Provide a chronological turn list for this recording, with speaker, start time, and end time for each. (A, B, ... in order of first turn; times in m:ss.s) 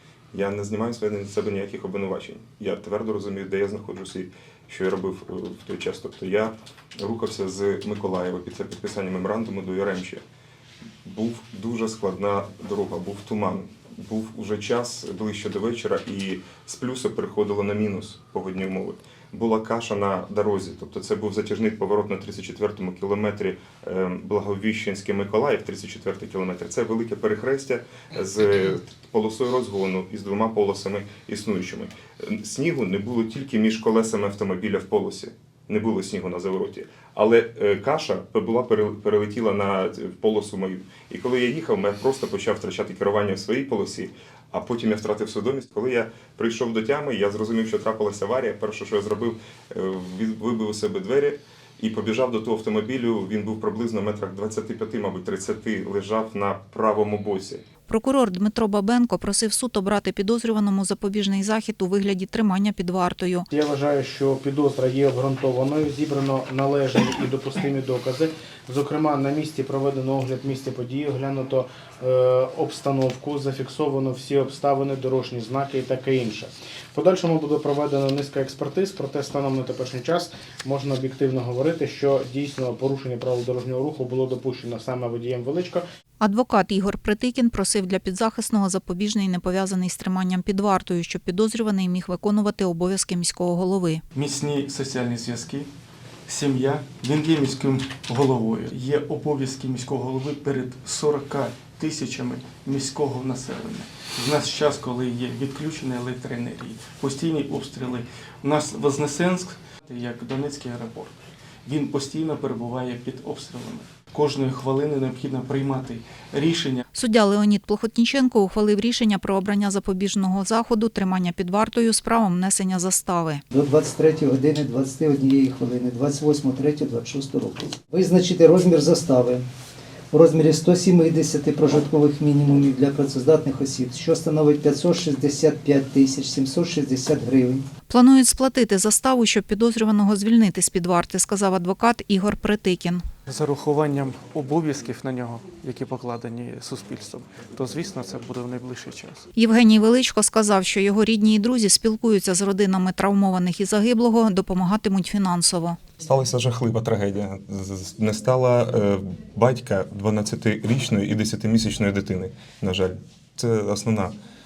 0:00.3-0:10.2 A
0:11.0-0:57.6 A
0:57.9-1:03.5 B
1:03.5-1:25.8 C
1:26.2-1:34.0 B
1:34.1-1:35.7 D
1:36.3-1:51.1 D
1:51.6-1:56.8 D
1:56.9-2:03.4 B
2:03.5-2:09.4 E
2:10.1-2:17.7 E
2:17.9-2:23.0 B
2:23.3-2:29.2 D
2:29.4-2:35.8 B
2:36.0-2:44.1 A